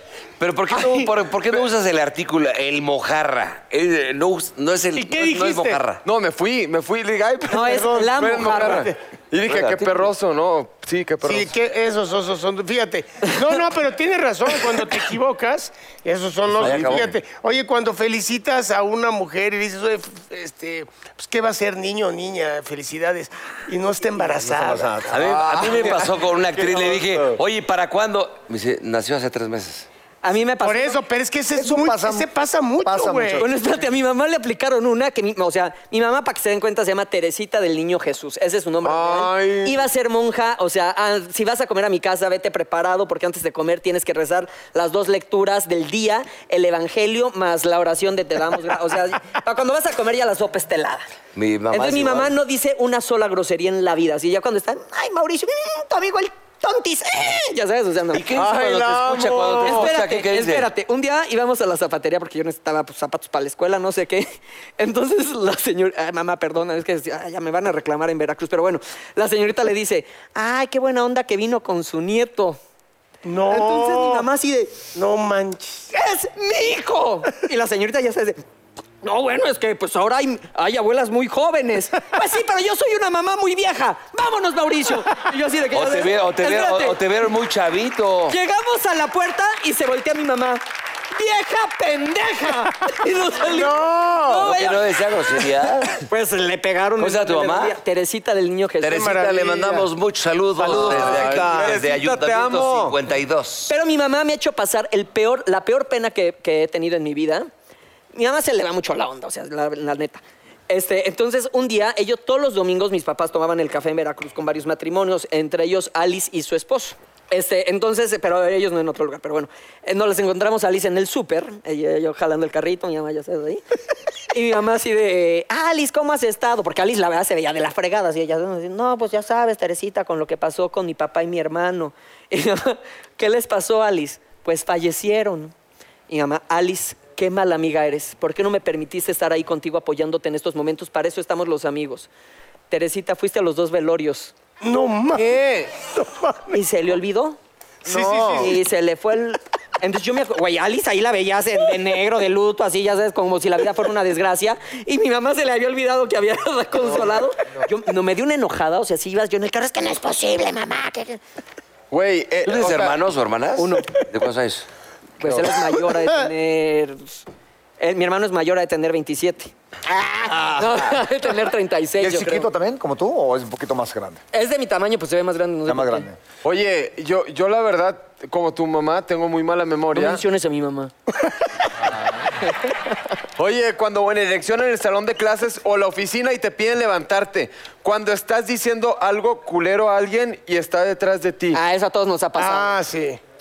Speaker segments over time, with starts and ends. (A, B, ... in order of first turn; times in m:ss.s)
0:00.4-0:06.0 A
0:05.0-0:05.8 B
0:06.0-0:11.5 C
0:07.5-0:08.9 D
0:08.0-0:08.9 B
0:09.5-0:10.1 A
0:11.2-0:25.1 B
0:16.6-0:17.1 A
0:16.6-0:17.1 C
0:24.4-0:25.3 E
0:25.1-0:29.9 A
0:25.2-0:27.4 C
0:30.2-0:31.0 D
0:30.6-0:33.4 B
0:31.5-0:32.3 E
0:32.8-0:33.6 E
0:33.4-0:51.0 D
0:38.8-0:39.8 C
0:51.3-0:52.3 A
0:51.7-0:58.2 D
0:58.1-1:00.7 A
0:58.3-0:59.9 C
0:59.6-1:12.6 D
1:13.2-1:14.3 B
1:13.5-1:14.8 D
1:14.9-1:15.8 B
1:15.9-1:18.4 D
1:19.0-1:27.0 D
1:25.7-1:28.4 A
1:28.3-1:30.6 D
1:31.1-1:35.0 D
1:33.6-1:34.4 C
1:34.4-1:36.0 A
1:36.0-1:39.1 D
1:37.0-1:37.8 A
1:38.8-1:43.7 A
1:38.9-1:39.9 B
1:40.6-1:41.8 E
1:40.6-1:43.0 C
1:43.7-1:47.5 D
1:48.1-2:03.6 D
2:04.3-2:15.5 D
2:16.1-2:22.1 D
2:22.7-2:24.3 D
2:24.6-2:26.6 B
2:25.1-2:25.7 C
2:26.5-2:27.4 D
2:27.8-2:28.5 B
2:27.9-2:28.5 C
2:28.3-2:41.2 D
2:41.9-2:43.0 C
2:42.4-2:44.7 A
2:43.6-2:43.9 D
2:45.2-2:47.2 D
2:45.2-2:45.5 C
2:47.8-2:49.5 D
2:50.1-2:52.5 D
2:52.0-2:54.2 E
2:54.3-2:56.1 D
2:55.6-2:56.2 E
2:56.4-3:00.2 C
2:59.9-3:00.9 D
3:03.4-3:11.6 C
3:11.5-3:12.8 D
3:12.4-3:13.2 B